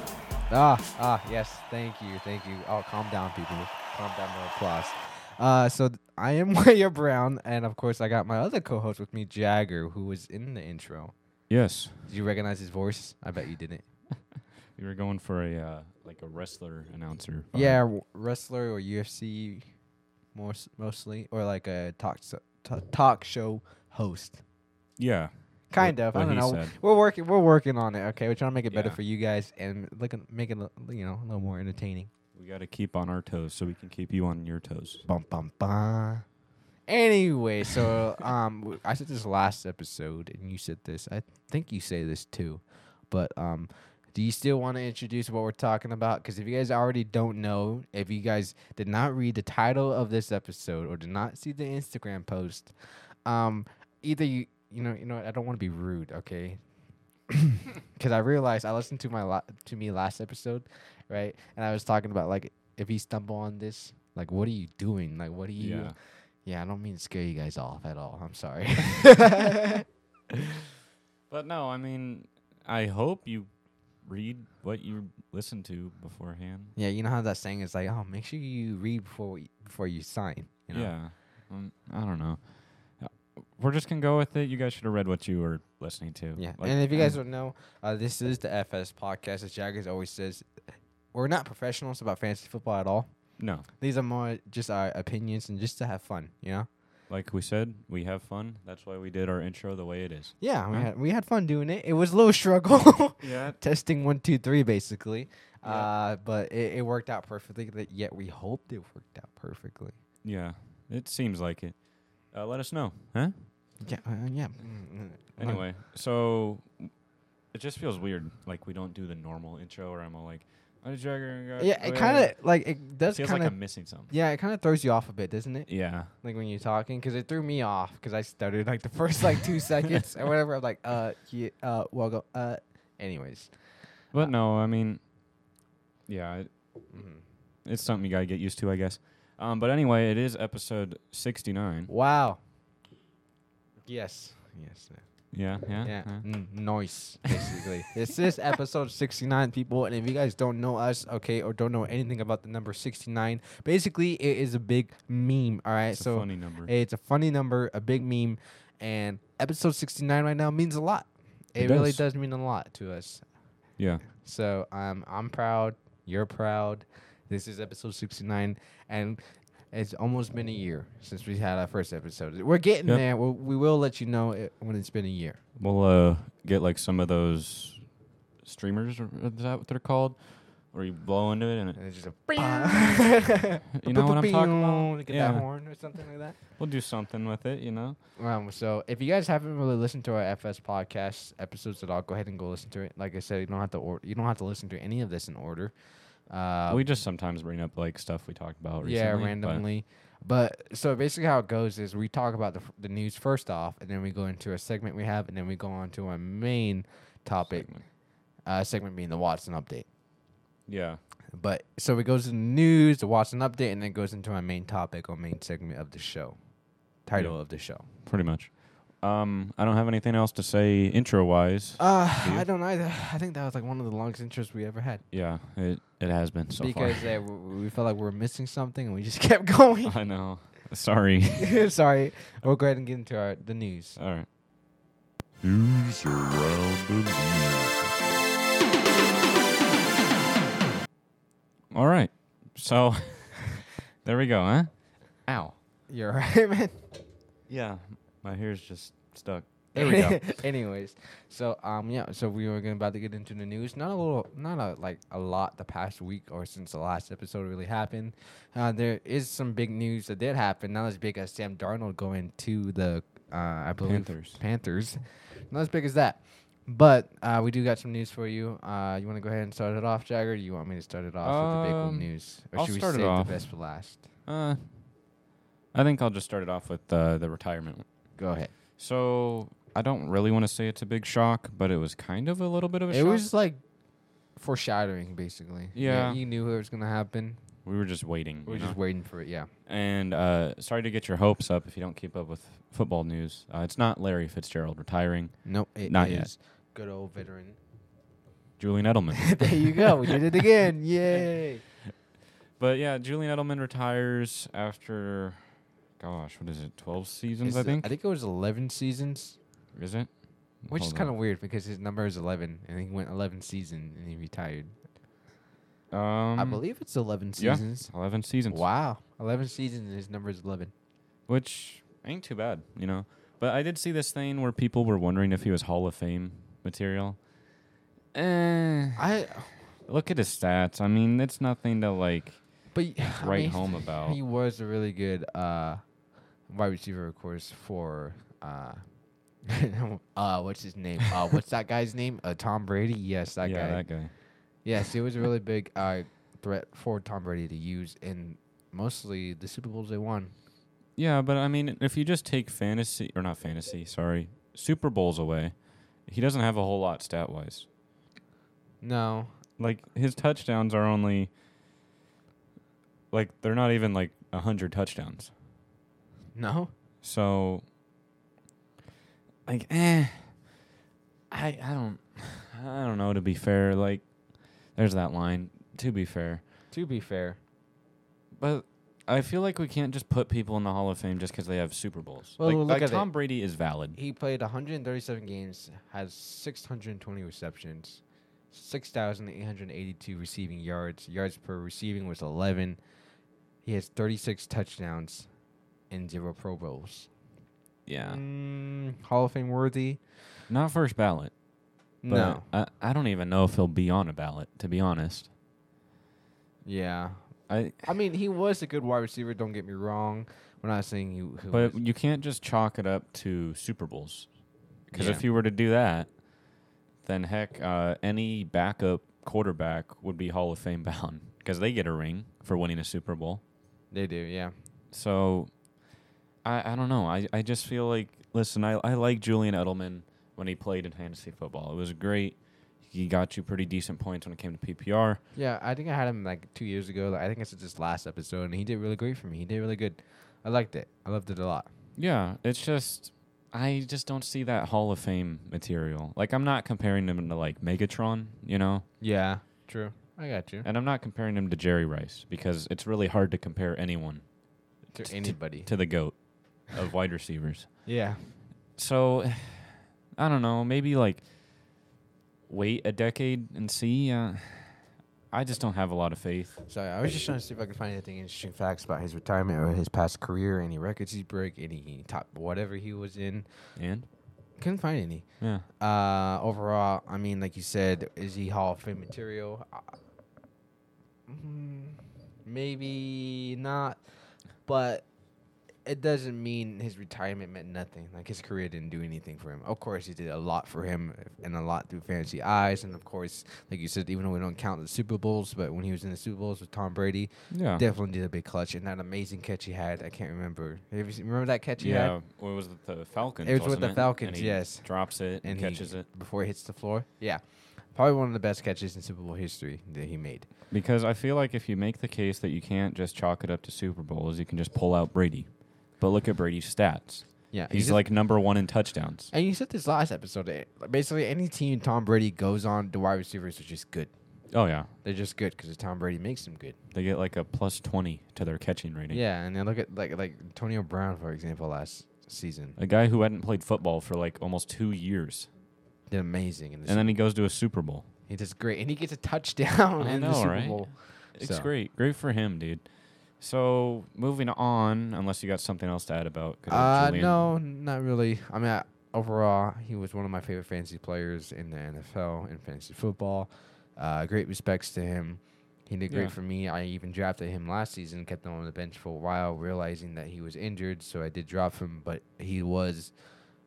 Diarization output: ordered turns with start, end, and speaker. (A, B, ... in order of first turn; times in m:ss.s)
0:00.5-0:11.1 A
0:11.5-0:12.0 B
0:12.1-0:13.8 A
0:14.8-0:17.8 B
0:17.5-0:19.7 A
0:20.3-0:24.4 A
0:25.0-0:26.8 B
0:25.7-0:32.1 A
0:28.7-0:29.0 B
0:32.3-0:35.0 B
0:35.0-0:36.2 A
0:36.9-0:52.7 A
0:53.2-0:56.6 A
0:57.3-1:09.8 A
1:05.6-1:06.0 B
1:11.3-1:13.5 B
1:14.0-1:16.7 B
1:16.8-1:21.0 A
1:20.7-1:27.2 B
1:26.4-1:36.7 A
1:33.4-1:33.6 B
1:37.1-1:40.9 B
1:40.4-1:50.0 A
1:43.2-1:43.6 B
1:45.6-1:45.9 B
1:50.2-1:53.3 B
1:53.8-1:55.7 A
1:55.4-1:56.9 B
1:57.5-2:02.4 B
2:01.6-2:14.3 A
2:03.1-2:04.1 B
2:05.7-2:06.1 B
2:14.1-2:15.0 B
2:16.1-2:16.5 B
2:16.9-2:17.2 A
2:17.6-2:21.9 B
2:21.9-2:22.4 A
2:23.9-2:55.4 A
2:25.3-2:26.4 B
2:35.9-2:36.7 B
2:41.6-2:42.0 B
2:43.8-2:44.0 B
2:55.6-2:57.9 B
2:58.4-3:01.8 B
3:01.8-3:06.4 A
3:02.4-3:02.9 B
3:03.8-3:05.5 B
3:06.6-3:08.0 B
3:08.2-3:16.9 A
3:16.7-3:19.6 B
3:18.8-3:29.9 A
3:27.4-3:27.8 B
3:30.7-3:31.0 B
3:31.3-3:37.9 A
3:37.1-3:42.5 B
3:41.8-3:45.0 A
3:45.1-3:47.1 B
3:46.6-3:50.0 A
3:49.8-3:51.6 B
3:51.4-3:54.0 A
3:54.0-3:54.3 B
3:55.4-3:57.9 B
4:01.7-4:05.6 B
4:05.9-4:06.8 A
4:07.5-4:10.4 B
4:09.7-4:34.0 A
4:23.8-4:24.4 B
4:31.2-4:33.7 B
4:34.2-4:35.0 B
4:35.7-4:37.9 B
4:38.2-4:38.5 A
4:38.8-4:43.3 B
4:42.9-4:43.6 A
4:44.3-4:47.6 A
4:45.7-4:46.2 B
4:47.6-4:49.0 B
4:48.4-4:49.5 A
4:49.6-4:56.3 B
4:55.4-4:57.6 A
4:58.6-4:59.9 B
4:59.3-5:01.6 A
5:02.6-5:07.9 B
5:07.4-5:09.4 A
5:09.7-5:11.1 B
5:10.7-5:14.8 A
5:15.9-5:16.7 B
5:16.4-5:20.7 A
5:17.4-5:18.6 B
5:21.3-5:27.2 B
5:28.1-5:29.1 B
5:29.0-5:29.5 A
5:29.8-5:34.2 B
5:32.7-5:35.8 A
5:36.4-5:50.3 A
5:43.4-5:44.1 B
5:51.0-5:57.7 B
5:58.8-5:59.4 A
5:59.6-6:01.3 B
6:03.1-6:05.3 B
6:06.3-6:06.7 A
6:07.0-6:07.6 B
6:09.4-6:10.5 B
6:11.3-6:16.4 B
6:16.7-6:17.4 A
6:18.4-6:24.0 B
6:22.4-6:32.8 A
6:33.6-6:35.3 A
6:35.9-6:37.1 A
6:37.8-6:38.2 B
6:38.0-6:40.0 A
6:40.5-6:41.4 B
6:42.0-6:42.5 A
6:42.0-6:45.3 B
6:46.6-6:51.8 A
6:47.5-6:47.8 B
6:51.5-6:54.3 B
6:54.9-6:56.2 B
6:54.9-6:55.2 A
6:57.0-7:03.4 B
7:03.9-7:04.6 A
7:04.9-7:05.6 B
7:06.4-7:15.2 B
7:15.3-7:21.7 A
7:22.0-7:28.8 B
7:29.0-7:30.7 A
7:30.6-7:34.2 B
7:34.9-7:35.7 A
7:35.0-7:37.9 B
7:37.8-7:38.3 A
7:38.8-7:41.3 B
7:42.5-7:46.6 B
7:46.6-7:53.8 A
7:53.8-7:54.1 B
7:54.6-8:00.0 A
7:55.4-7:55.6 B
8:01.3-8:05.1 A
8:05.8-8:22.2 A
8:17.5-8:17.8 B
8:21.8-8:26.1 B
8:23.4-8:30.5 A
8:30.7-8:39.3 B
8:37.5-8:38.1 A
8:39.3-8:44.1 A
8:44.5-8:44.9 B
8:44.9-8:46.8 A
8:46.9-8:49.2 B
8:49.1-8:52.8 A
8:52.8-8:55.5 B
8:56.1-8:57.2 A
8:56.8-8:58.1 B
8:58.3-9:01.7 A
9:00.0-9:07.4 B
9:06.7-9:23.1 A
9:16.1-9:16.3 B